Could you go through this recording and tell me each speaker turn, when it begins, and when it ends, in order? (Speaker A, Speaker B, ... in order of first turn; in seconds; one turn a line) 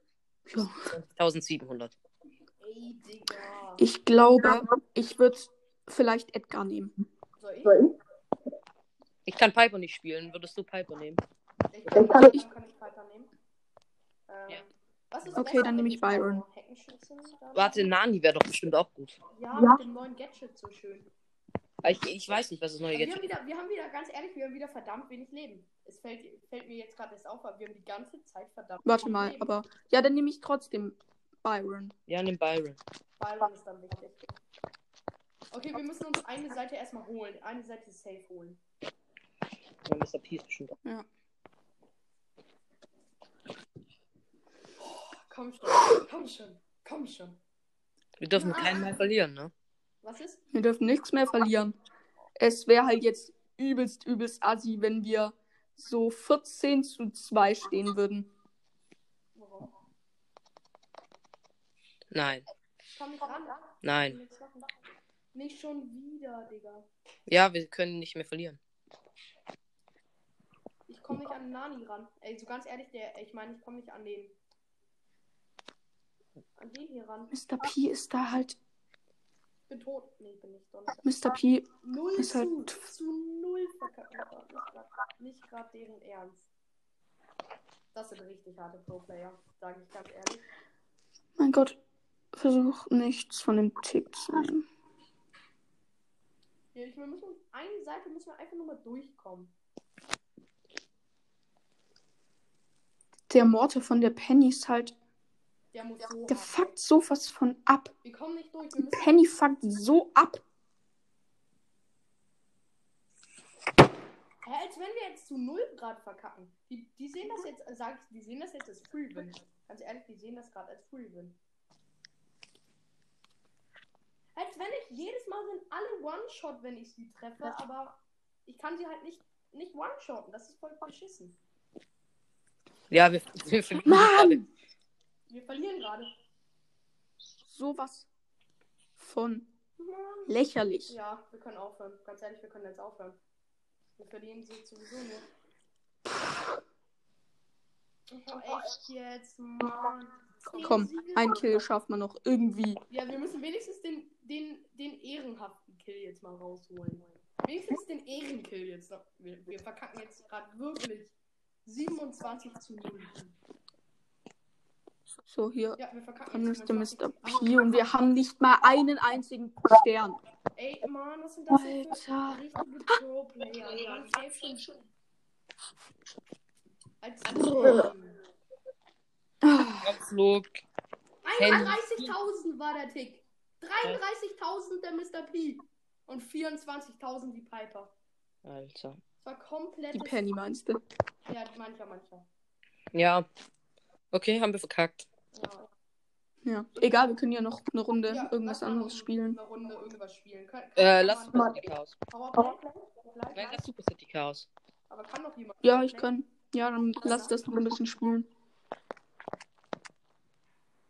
Speaker A: 0.5-0.9
Speaker B: 0.9-1.9
Speaker C: 2.6-3.9
Speaker A: 3.8-6.9
Speaker C: 7.4-7.9
Speaker B: 9.3-11.2
Speaker C: 11.7-13.3
Speaker A: 12.0-12.4
Speaker C: 14.3-17.9
Speaker A: 15.3-16.4
Speaker B: 17.6-19.2
Speaker C: 19.3-21.1
Speaker B: 21.8-23.3
Speaker C: 22.9-29.5
Speaker A: 28.8-31.9
Speaker B: 32.1-32.8
Speaker C: 33.2-34.2
Speaker C: 35.5-38.6
Speaker B: 39.9-40.8
Speaker C: 44.8-47.4
Speaker B: 48.2-49.5
Speaker C: 48.4-49.0
Speaker C: 50.0-50.4
Speaker A: 50.5-51.8
Speaker A: 52.4-58.3
Speaker C: 59.4-59.7
Speaker B: 62.1-62.5
Speaker C: 62.9-64.8
Speaker B: 63.8-64.2
Speaker C: 65.3-66.9
Speaker B: 67.3-68.6
Speaker C: 70.9-74.4
Speaker C: 76.6-77.3
Speaker A: 77.3-78.6
Speaker C: 79.7-81.0
Speaker A: 81.0-82.8
Speaker C: 81.8-86.5
Speaker C: 87.9-90.5
Speaker A: 91.4-91.8
Speaker A: 92.3-94.7
Speaker C: 96.7-99.5
Speaker A: 103.3-105.0
Speaker C: 105.7-106.8
Speaker A: 106.3-107.9
Speaker C: 108.0-109.2
Speaker A: 108.8-110.4
Speaker C: 114.4-121.4
Speaker C: 124.3-131.4
Speaker B: 132.9-134.4
Speaker A: 133.8-134.4
Speaker C: 135.3-136.1
Speaker A: 137.5-138.1
Speaker A: 139.0-139.5
Speaker C: 139.8-140.4
Speaker A: 140.3-140.9
Speaker C: 140.9-143.2
Speaker C: 144.0-145.3
Speaker C: 148.1-151.6
Speaker A: 150.6-152.8
Speaker C: 152.9-163.4
Speaker A: 165.3-165.8
Speaker C: 165.8-167.9
Speaker A: 166.3-170.2
Speaker C: 170.6-174.7
Speaker A: 171.5-173.0
Speaker C: 177.0-178.2
Speaker A: 177.5-177.9
Speaker A: 179.4-179.9
Speaker B: 179.8-180.6
Speaker C: 181.2-187.9
Speaker B: 181.4-182.1
Speaker B: 188.4-189.0
Speaker C: 189.2-190.2
Speaker A: 189.9-190.8
Speaker C: 191.3-192.3
Speaker B: 192.9-193.3
Speaker B: 194.1-195.1
Speaker C: 195.3-195.7
Speaker A: 196.4-199.4
Speaker C: 198.1-203.7
Speaker B: 200.8-202.0
Speaker B: 203.3-204.5
Speaker C: 204.9-206.1
Speaker A: 205.6-208.3
Speaker C: 207.0-207.4